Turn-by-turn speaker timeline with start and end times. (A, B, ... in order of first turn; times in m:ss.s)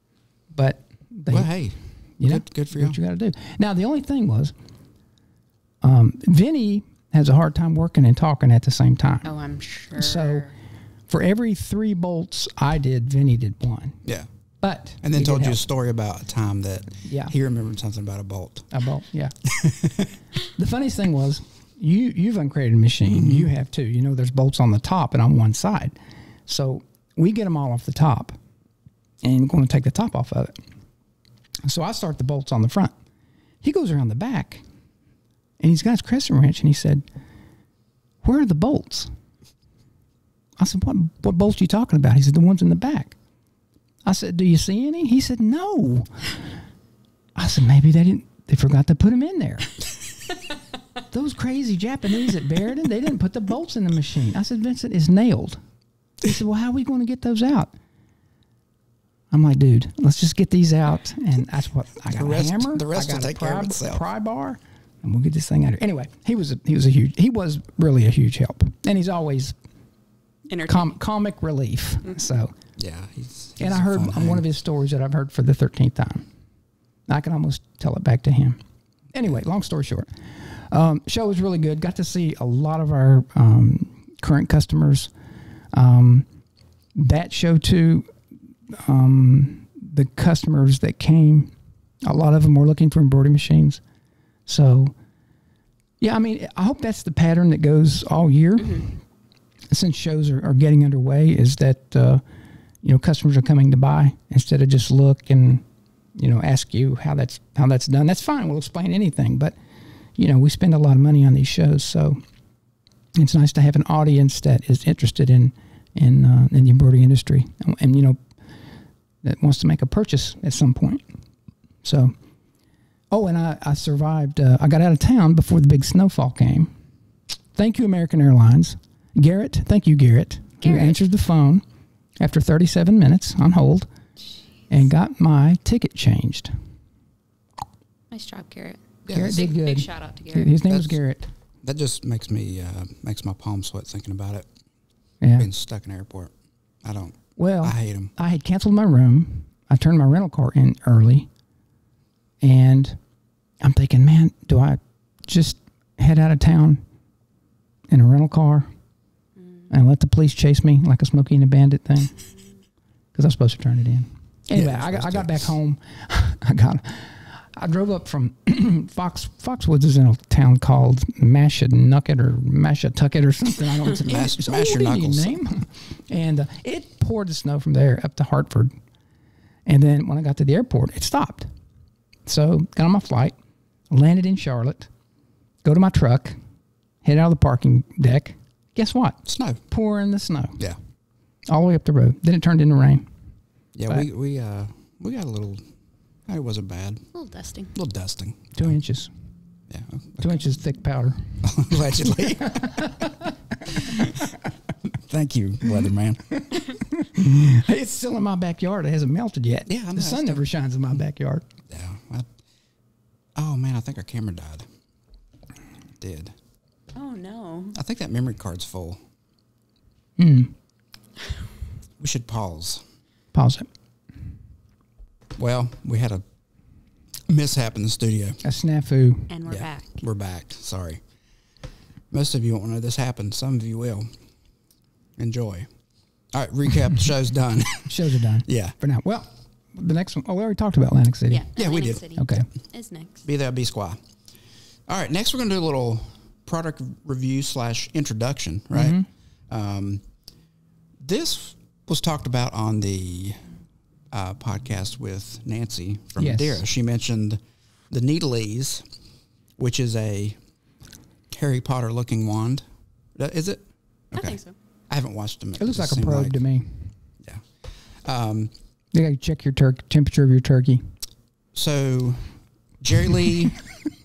0:00.5-0:01.5 A
0:01.3-0:03.0 B
0:02.2-0:04.5 A
0:05.8-0:09.3 A
0:09.2-0:10.5 C
0:09.9-0:10.5 A
0:11.1-0:14.0 A
0:14.6-0:15.6 A
0:15.0-0:18.7 B
0:17.1-0:17.3 A
0:18.7-0:19.4 A
0:19.5-0:20.1 B
0:20.6-0:26.0 A
0:23.1-0:23.5 B
0:26.5-0:28.4 A
0:29.2-0:30.6 A
0:31.6-0:32.9 A
0:33.6-0:34.6 A
0:35.6-0:37.0 A
0:38.2-0:39.1 A
0:40.6-0:43.2 A
0:44.0-0:46.3 A
0:47.4-0:49.7 A
0:51.1-0:55.6 A
0:56.2-0:57.7 A
0:59.3-1:09.6 A
1:02.1-1:04.0 B
1:10.5-1:11.0 C
1:10.7-1:12.5 A
1:12.8-1:14.5 B
1:13.6-1:16.3 A
1:17.1-1:18.6 A
1:19.1-1:25.1 A
1:25.7-1:26.3 A
1:27.0-1:28.1 A
1:28.7-1:31.5 A
1:32.0-1:33.8 A
1:34.5-1:34.9 A
1:36.0-1:39.0 A
1:38.6-1:38.9 C
1:39.7-1:42.2 A
1:42.8-1:45.6 A
1:46.2-1:49.6 A
1:50.2-1:52.2 A
1:53.2-1:58.2 A
1:59.2-2:01.0 A
2:01.8-2:02.2 A
2:03.1-2:06.7 A
2:07.6-2:11.6 A
2:10.6-2:11.0 C
2:12.2-2:13.9 A
2:14.7-2:16.5 A
2:18.1-2:20.6 C
2:19.1-2:19.5 B
2:19.1-2:21.3 A
2:20.7-2:21.0 B
2:21.6-2:24.5 B
2:25.2-2:25.5 A
2:25.4-2:28.1 B
2:27.4-2:31.3 A
2:32.4-2:33.0 A
2:33.6-2:36.8 A
2:37.9-2:38.7 A
2:39.7-2:42.2 A
2:43.1-2:58.8 A
2:44.5-2:45.5 B
2:54.0-2:55.4 B
2:59.7-3:01.5 A
3:02.3-3:03.4 A
3:03.9-3:04.9 A
3:05.6-3:06.4 A
3:07.0-3:10.7 A
3:09.2-3:09.6 B
3:11.5-3:13.1 A
3:13.8-3:15.7 B
3:16.3-3:17.1 B
3:17.1-3:17.7 C
3:17.7-3:18.8 B
3:18.6-3:19.1 A
3:19.7-3:20.3 B
3:20.2-3:24.1 A
3:21.4-3:22.9 B
3:23.8-3:24.3 B
3:24.9-3:26.4 B
3:26.4-3:31.5 A
3:29.7-3:30.4 B
3:31.7-3:32.3 B
3:33.4-3:34.7 B
3:36.0-3:36.4 B
3:36.9-3:37.8 C
3:37.7-3:39.0 B
3:40.2-3:40.5 A
3:42.0-3:42.8 B
3:43.3-3:43.7 A
3:45.4-3:46.2 B
3:47.3-3:48.4 B
3:48.4-3:49.4 A
3:49.3-3:50.0 C
3:49.5-3:51.0 B
3:52.1-3:54.1 B
3:55.2-3:55.7 B
3:56.3-3:58.8 B
3:57.9-4:01.5 A
4:01.3-4:03.2 C
4:01.6-4:02.0 B
4:02.2-4:02.5 A
4:03.2-4:04.0 B
4:04.9-4:10.0 B
4:08.7-4:09.1 A
4:11.0-4:13.4 B
4:14.1-4:18.8 B
4:16.2-4:16.6 A
4:19.6-4:20.4 B
4:21.3-4:24.4 B
4:24.1-4:24.6 C
4:24.9-4:26.4 B
4:25.6-4:26.9 A
4:27.2-4:28.5 B
4:28.9-4:30.8 A
4:31.5-4:33.6 B